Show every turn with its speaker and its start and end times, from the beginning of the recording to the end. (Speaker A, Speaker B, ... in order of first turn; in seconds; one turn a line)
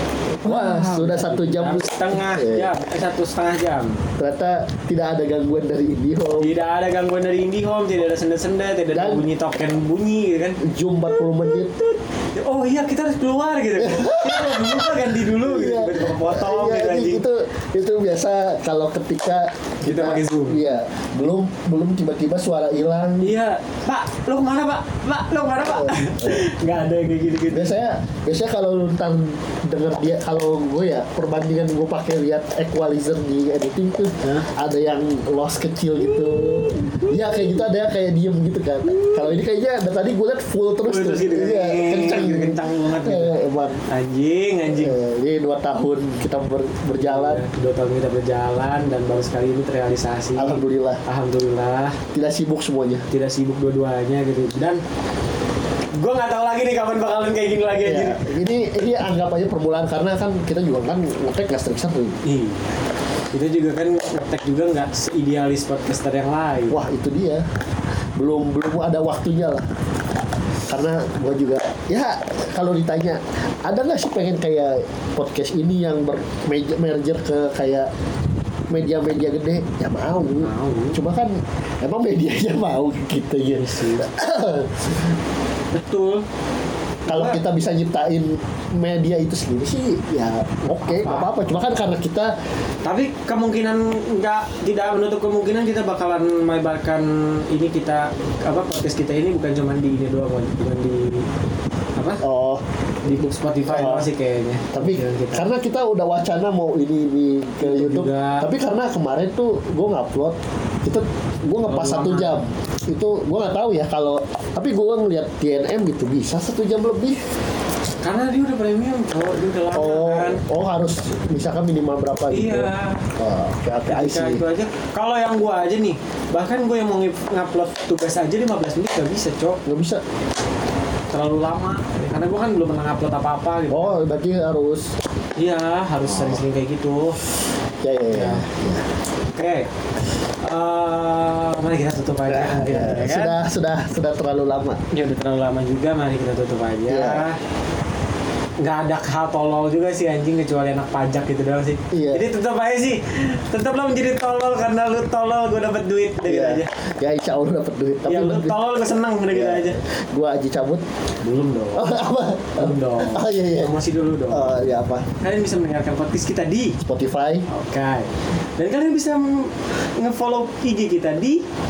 Speaker A: 0.4-2.7
Speaker B: 0.4-4.0
Speaker A: 4.2-6.5
Speaker B: 6.4-10.6
Speaker A: 8.9-9.2
Speaker A: 10.6-11.7
Speaker B: 11.1-17.2
Speaker A: 13.8-23.3
Speaker B: 19.8-20.6
Speaker B: 23.2-27.7
Speaker A: 25.6-26.5
Speaker A: 27.5-43.8
Speaker B: 34.2-34.5
Speaker B: 36.0-37.6
Speaker B: 38.9-39.4
Speaker B: 40.8-45.0
Speaker A: 44.7-47.4
Speaker B: 46.9-52.0
Speaker A: 50.4-51.0
Speaker A: 52.1-53.1
Speaker B: 53.1-54.8
Speaker B: 55.9-58.2
Speaker A: 57.8-62.2
Speaker B: 62.2-62.7
Speaker B: 63.3-66.8
Speaker A: 66.7-67.4
Speaker A: 68.2-69.7
Speaker A: 70.7-77.9
Speaker A: 78.7-85.1
Speaker B: 80.4-81.0
Speaker B: 83.5-84.1
Speaker B: 85.7-86.2
Speaker A: 87.1-92.3
Speaker B: 87.1-87.4
Speaker B: 90.8-91.3
Speaker B: 92.8-101.3
Speaker B: 102.0-102.2
Speaker A: 102.2-104.1
Speaker B: 103.0-105.5
Speaker A: 104.7-117.2
Speaker B: 107.6-108.5
Speaker B: 111.7-112.4
Speaker B: 118.0-120.4
Speaker A: 119.7-124.4
Speaker B: 122.3-123.1
Speaker B: 123.9-129.6
Speaker A: 129.7-130.0
Speaker B: 131.1-134.0
Speaker A: 133.7-134.9
Speaker B: 135.4-137.2
Speaker A: 136.1-136.4
Speaker A: 137.8-138.8
Speaker B: 138.1-138.4
Speaker B: 139.3-139.7
Speaker B: 140.4-143.4
Speaker A: 142.3-144.8
Speaker B: 144.9-147.4
Speaker A: 146.9-147.2
Speaker B: 148.6-156.7
Speaker A: 151.9-152.2
Speaker A: 156.2-158.6
Speaker B: 158.1-159.8
Speaker A: 159.3-160.8
Speaker B: 161.2-161.9
Speaker A: 161.7-163.8
Speaker B: 162.6-164.5
Speaker A: 164.3-165.1
Speaker B: 165.2-166.8
Speaker A: 166.8-167.4
Speaker B: 167.5-171.4